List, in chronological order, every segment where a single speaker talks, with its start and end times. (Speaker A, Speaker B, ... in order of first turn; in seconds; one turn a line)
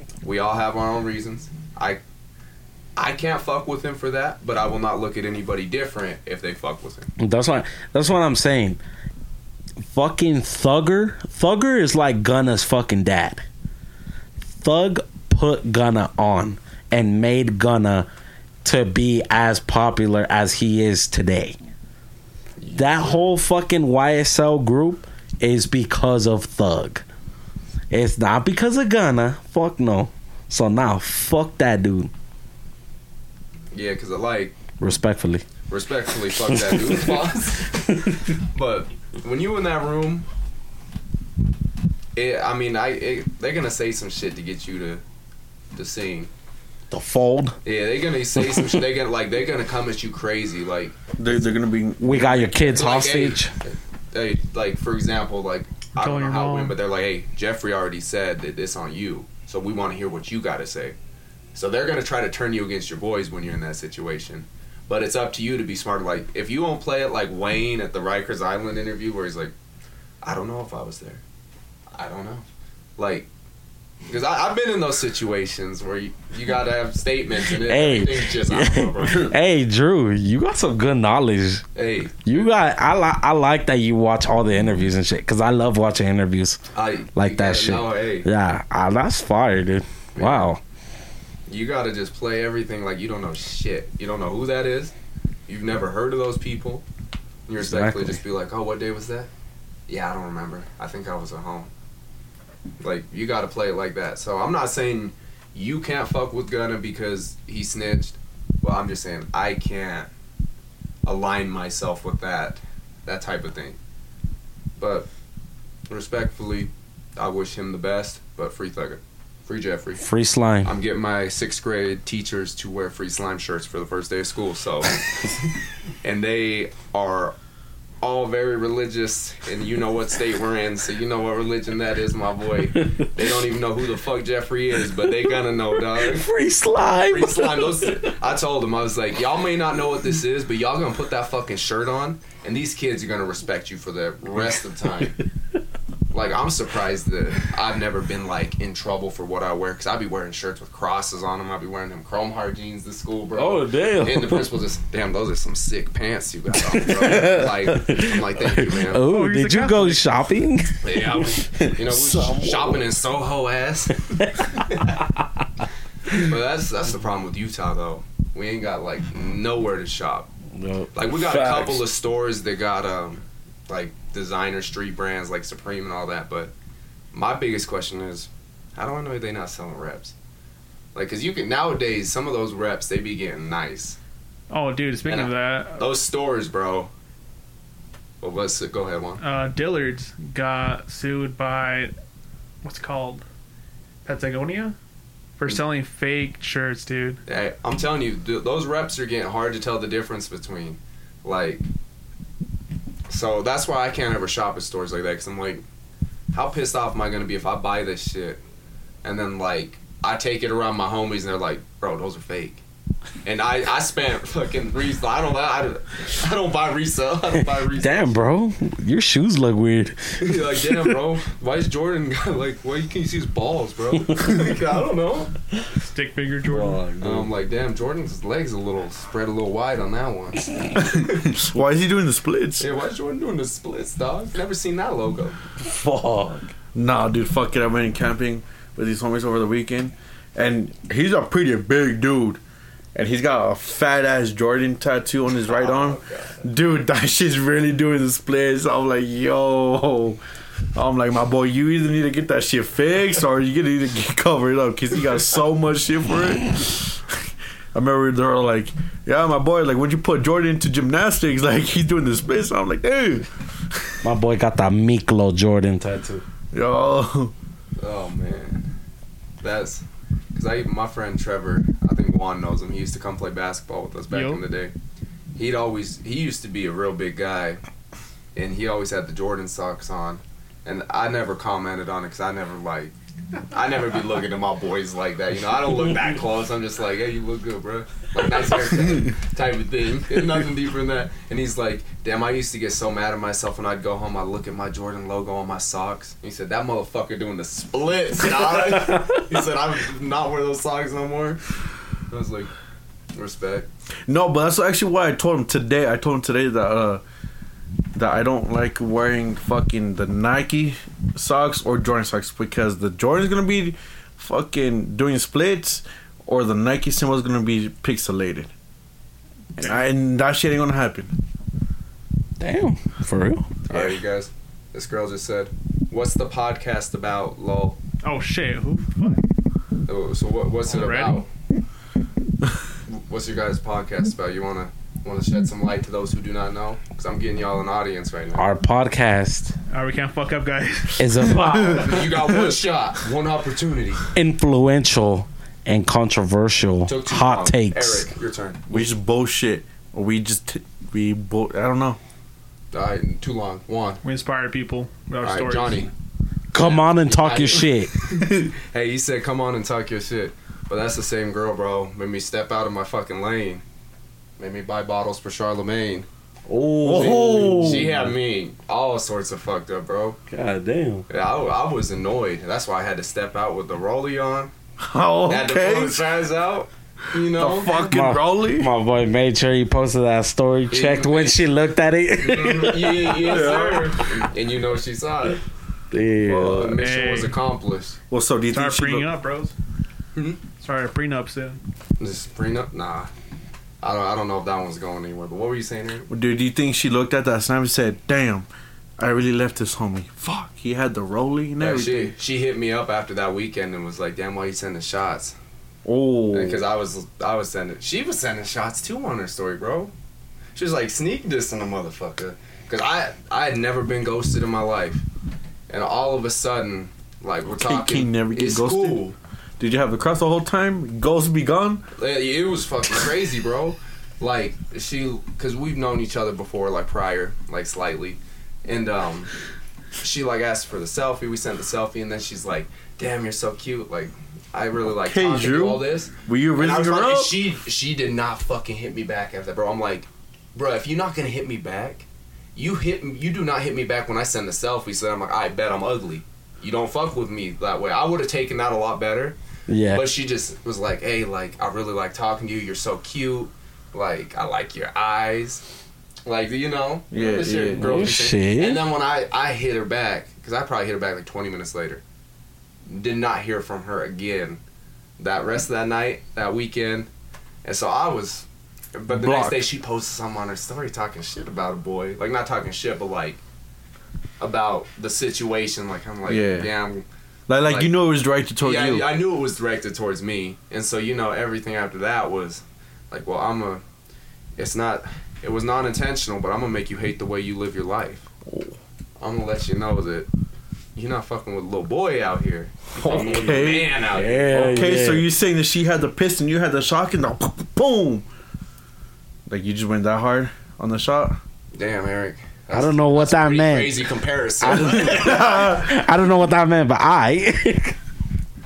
Speaker A: 0.2-2.0
Speaker A: 3.0-7.1
Speaker B: 7.2-8.8
Speaker B: 9.8-13.4
Speaker B: 14.6-18.1
Speaker B: 18.6-21.6
Speaker A: 22.6-23.2
Speaker B: 22.7-27.0
Speaker B: 27.9-32.1
Speaker A: 33.7-34.6
Speaker B: 34.8-35.5
Speaker A: 35.7-40.3
Speaker B: 36.5-37.1
Speaker A: 42.1-45.0
Speaker A: 45.7-46.3
Speaker B: 46.9-47.6
Speaker A: 47.6-51.5
Speaker B: 48.4-48.7
Speaker C: 51.2-52.6
Speaker B: 52.0-53.5
Speaker A: 52.6-61.0
Speaker D: 56.0-56.8
Speaker A: 61.5-69.5
Speaker A: 70.2-71.2
Speaker A: 71.9-72.5
Speaker A: 73.0-73.3
Speaker A: 74.1-79.3
Speaker B: 77.6-81.6
Speaker A: 81.7-82.5
Speaker B: 82.2-86.6
Speaker A: 86.7-88.3
Speaker B: 87.1-90.6
Speaker A: 90.1-90.5
Speaker A: 91.5-94.9
Speaker A: 95.5-96.8
Speaker A: 97.5-99.3
Speaker B: 97.6-98.2
Speaker A: 99.9-101.7
Speaker A: 102.8-110.1
Speaker A: 111.0-113.8
Speaker A: 114.8-115.1
Speaker A: 115.9-120.0
Speaker B: 120.0-120.7
Speaker A: 120.6-125.0
Speaker A: 126.0-127.3
Speaker A: 128.0-136.3
Speaker B: 135.9-138.1
Speaker A: 137.1-145.2
Speaker A: 146.1-159.1
Speaker B: 153.3-154.5
Speaker B: 156.7-162.9
Speaker D: 159.0-160.1
Speaker A: 160.8-164.9
Speaker B: 164.1-164.6
Speaker A: 166.1-170.3
Speaker B: 170.5-171.8
Speaker A: 170.9-176.5
Speaker A: 177.1-180.1
Speaker A: 180.9-184.0
Speaker D: 184.5-185.8
Speaker A: 185.0-186.9
Speaker A: 188.2-189.2
Speaker D: 189.2-191.9
Speaker D: 192.6-193.2
Speaker D: 194.0-194.8
Speaker D: 195.4-197.2
Speaker A: 197.2-201.7
Speaker A: 203.1-205.6
Speaker A: 206.3-208.4
Speaker A: 209.0-212.6
Speaker A: 213.2-218.2
Speaker B: 217.8-220.3
Speaker A: 220.2-225.3
Speaker D: 225.8-226.9
Speaker B: 226.5-227.3
Speaker A: 227.0-231.3
Speaker C: 230.8-232.7
Speaker A: 232.6-235.4
Speaker B: 235.6-236.5
Speaker C: 236.7-242.4
Speaker C: 242.9-250.2
Speaker A: 245.5-246.4
Speaker C: 250.7-257.2
Speaker C: 257.7-263.8
Speaker B: 264.0-266.2
Speaker C: 266.5-267.3
Speaker A: 267.8-268.7
Speaker A: 269.4-274.7
Speaker D: 274.1-274.4
Speaker A: 275.3-277.6
Speaker A: 278.3-282.9
Speaker A: 283.5-301.4
Speaker A: 302.1-302.5
Speaker A: 303.1-303.7
Speaker C: 304.1-307.0
Speaker C: 307.9-318.5
Speaker C: 319.6-321.1
Speaker B: 322.4-323.5
Speaker A: 323.7-327.8
Speaker D: 328.0-329.2
Speaker A: 329.9-331.3
Speaker D: 330.7-331.2
Speaker A: 332.9-338.5
Speaker B: 338.3-339.5
Speaker D: 339.7-341.4
Speaker B: 341.0-342.0
Speaker C: 341.5-341.8
Speaker A: 341.7-344.1
Speaker B: 344.1-348.1
Speaker A: 346.9-348.6
Speaker C: 348.7-352.0
Speaker A: 352.7-354.0
Speaker D: 354.0-355.9
Speaker A: 355.2-355.9
Speaker B: 356.5-357.9
Speaker A: 356.5-363.6
Speaker A: 364.4-366.1
Speaker B: 366.5-368.1
Speaker C: 366.8-367.9
Speaker A: 366.9-370.2
Speaker B: 370.3-371.1
Speaker A: 371.1-374.5
Speaker C: 374.8-376.1
Speaker A: 375.3-377.9
Speaker C: 377.2-378.7
Speaker B: 377.9-383.5
Speaker A: 380.7-381.4
Speaker A: 382.2-385.4
Speaker C: 383.2-383.9
Speaker B: 385.9-386.8
Speaker A: 386.2-388.0
Speaker D: 386.7-387.4
Speaker C: 388.1-389.1
Speaker D: 388.5-389.5
Speaker A: 390.1-390.4
Speaker D: 390.5-391.6
Speaker A: 392.0-393.1
Speaker A: 393.8-396.1
Speaker C: 396.1-398.5
Speaker C: 399.0-402.1
Speaker A: 401.6-405.4
Speaker C: 405.8-406.6
Speaker A: 406.3-409.9
Speaker A: 410.5-415.0
Speaker A: 415.7-419.1
Speaker C: 417.5-419.0
Speaker C: 419.6-421.8
Speaker A: 422.0-429.3
Speaker A: 430.0-449.4
Speaker C: 434.9-437.4
Speaker B: 449.7-450.1
Speaker A: 449.9-455.6
Speaker A: 456.2-462.0
Speaker C: 457.1-458.2
Speaker B: 457.8-458.8
Speaker A: 462.9-464.6
Speaker A: 465.2-467.1
Speaker A: 467.6-473.4
Speaker C: 469.1-469.7
Speaker A: 474.4-477.1
Speaker C: 476.2-476.7
Speaker C: 477.5-479.1
Speaker A: 477.6-477.9
Speaker A: 478.6-483.8
Speaker A: 484.6-488.3
Speaker C: 488.4-488.7
Speaker A: 489.2-490.3
Speaker A: 490.9-494.8
Speaker C: 493.0-493.9
Speaker B: 494.1-495.3
Speaker C: 494.5-498.2
Speaker C: 499.5-501.4
Speaker A: 501.7-505.8
Speaker B: 502.7-504.0
Speaker B: 504.6-508.0
Speaker C: 504.7-505.8